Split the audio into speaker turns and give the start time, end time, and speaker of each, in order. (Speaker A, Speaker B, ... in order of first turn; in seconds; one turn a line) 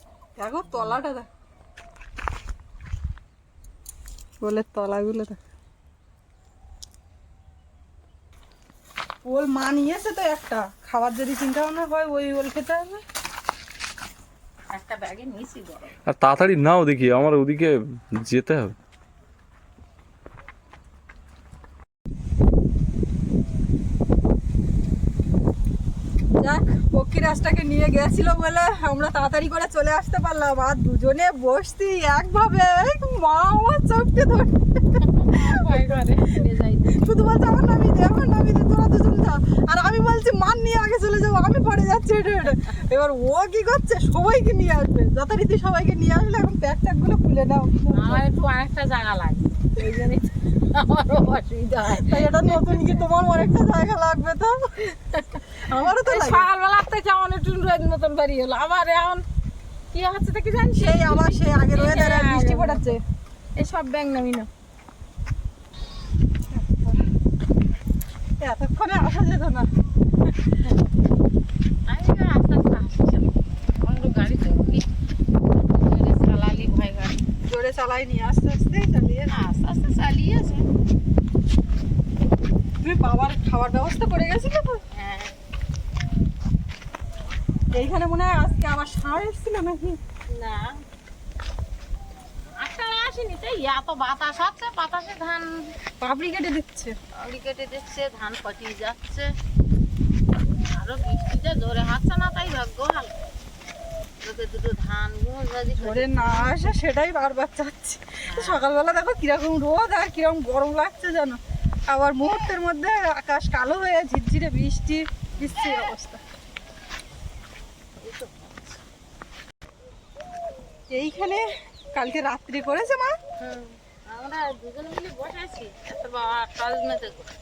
Speaker A: 0.4-1.3
Speaker B: 0.7-1.0
Speaker A: 4.4-5.4
Speaker A: 9.2-13.0
Speaker B: 14.7-15.9
Speaker C: 16.1-17.7
Speaker C: 18.2-18.7
Speaker A: 26.4-36.0
Speaker B: 35.2-37.0
Speaker A: 36.9-48.2
Speaker B: 47.9-52.9
Speaker A: 52.0-54.7
Speaker B: 54.9-55.4
Speaker A: 55.6-56.5
Speaker B: 56.0-59.2
Speaker B: 59.9-62.9
Speaker A: 60.8-63.0
Speaker B: 63.5-64.5
Speaker A: 66.5-67.0
Speaker A: 68.4-69.7
Speaker B: 71.8-74.8
Speaker B: 75.6-77.2
Speaker A: 77.5-79.4
Speaker B: 79.3-80.7
Speaker A: 82.8-84.8
Speaker B: 84.9-85.3
Speaker A: 87.7-90.0
Speaker B: 90.3-90.8
Speaker B: 92.6-95.7
Speaker A: 96.0-96.9
Speaker B: 97.1-99.3
Speaker B: 100.5-103.1
Speaker B: 104.2-106.5
Speaker A: 105.8-111.4
Speaker B: 108.2-108.6
Speaker A: 111.9-116.2
Speaker B: 118.0-118.7
Speaker A: 120.9-123.1
Speaker B: 123.4-127.3